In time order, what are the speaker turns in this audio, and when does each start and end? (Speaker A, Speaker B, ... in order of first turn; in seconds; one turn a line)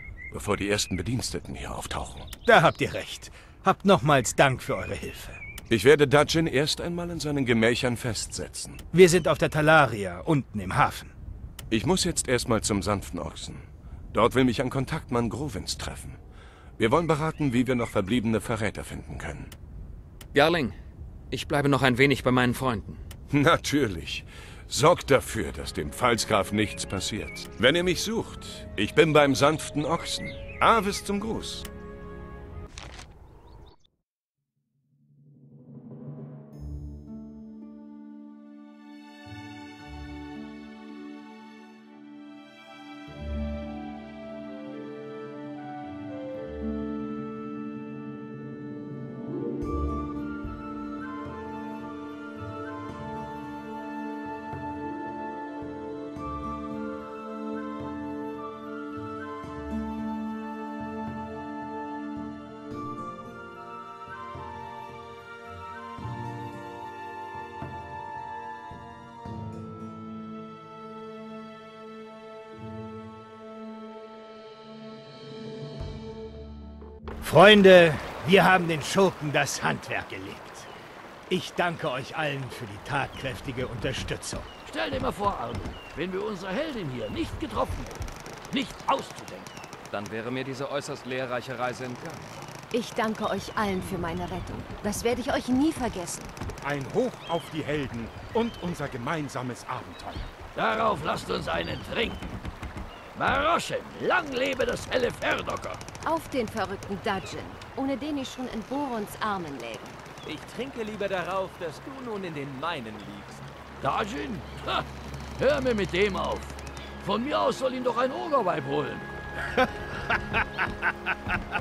Speaker A: 0.3-2.3
Speaker B: 2.5-5.4
Speaker A: 5.7-8.8
Speaker B: 8.9-11.1
Speaker A: 11.7-16.2
Speaker A: 16.8-19.5
Speaker C: 20.3-20.8
Speaker C: 21.3-23.0
Speaker A: 23.3-31.6
Speaker B: 77.2-80.7
Speaker B: 81.3-84.5
Speaker D: 84.7-89.6
Speaker C: 89.9-92.2
Speaker E: 92.7-96.3
Speaker F: 96.6-100.3
Speaker D: 100.6-102.3
Speaker D: 103.1-105.8
Speaker E: 106.0-110.0
Speaker G: 110.2-113.5
Speaker D: 113.8-114.9
Speaker D: 115.4-119.1